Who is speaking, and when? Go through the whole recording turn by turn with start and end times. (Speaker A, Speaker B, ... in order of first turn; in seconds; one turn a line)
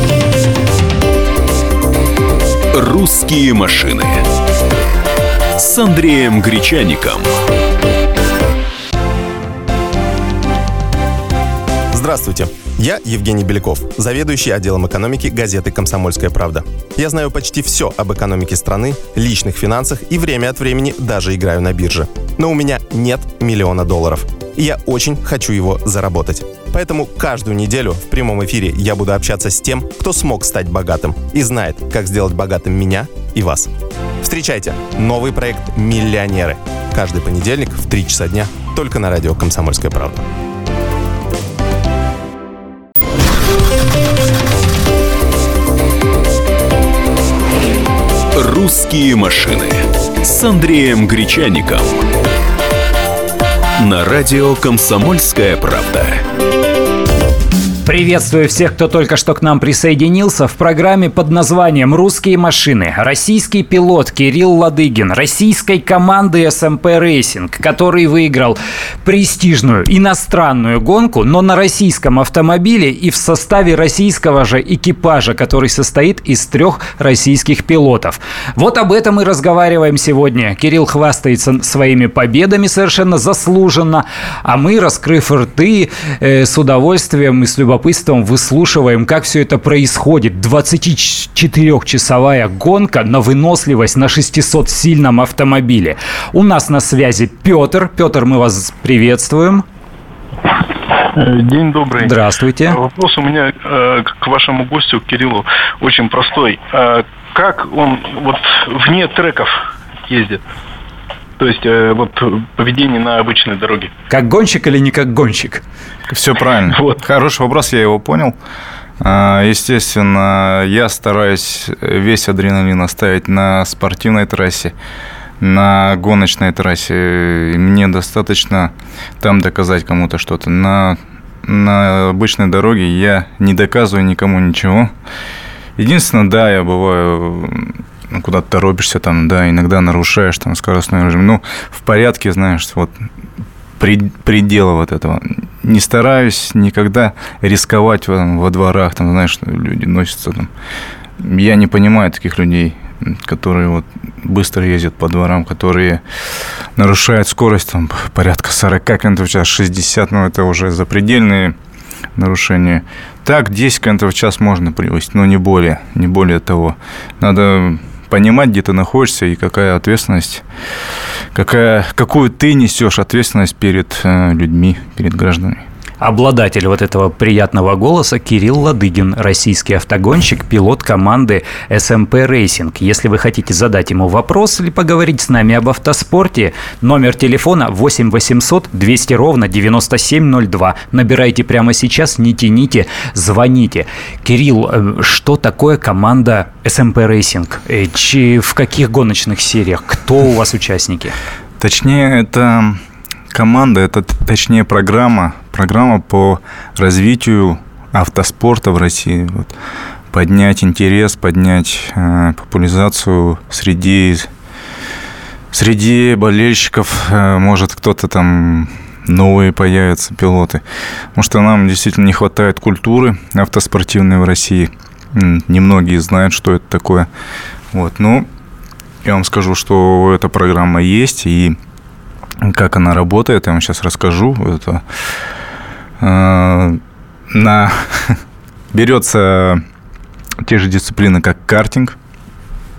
Speaker A: 2.7-4.2
Speaker A: 5.6-7.3
Speaker B: 11.9-33.7
Speaker B: 34.2-40.2
Speaker A: 48.3-52.0
Speaker A: 53.8-56.2
Speaker C: 57.8-99.6
Speaker D: 101.1-109.5
Speaker C: 102.0-102.8
Speaker D: 110.1-110.4
Speaker D: 111.4-113.9
Speaker C: 114.1-115.6
Speaker E: 116.1-118.4
Speaker D: 116.7-117.0
Speaker E: 119.0-124.7
Speaker E: 125.4-134.9
Speaker E: 135.8-143.1
Speaker E: 143.8-150.5
Speaker E: 151.2-156.0
Speaker E: 156.8-161.6
Speaker E: 162.2-170.4
Speaker E: 171.3-175.6
Speaker C: 176.0-201.2
Speaker E: 201.6-209.5
Speaker E: 210.1-214.3
Speaker E: 215.5-220.6
Speaker E: 221.1-227.1
Speaker E: 227.7-228.3
Speaker E: 229.0-231.6
Speaker E: 232.4-234.8
Speaker E: 236.0-238.2
Speaker E: 238.7-239.6
Speaker E: 240.4-241.9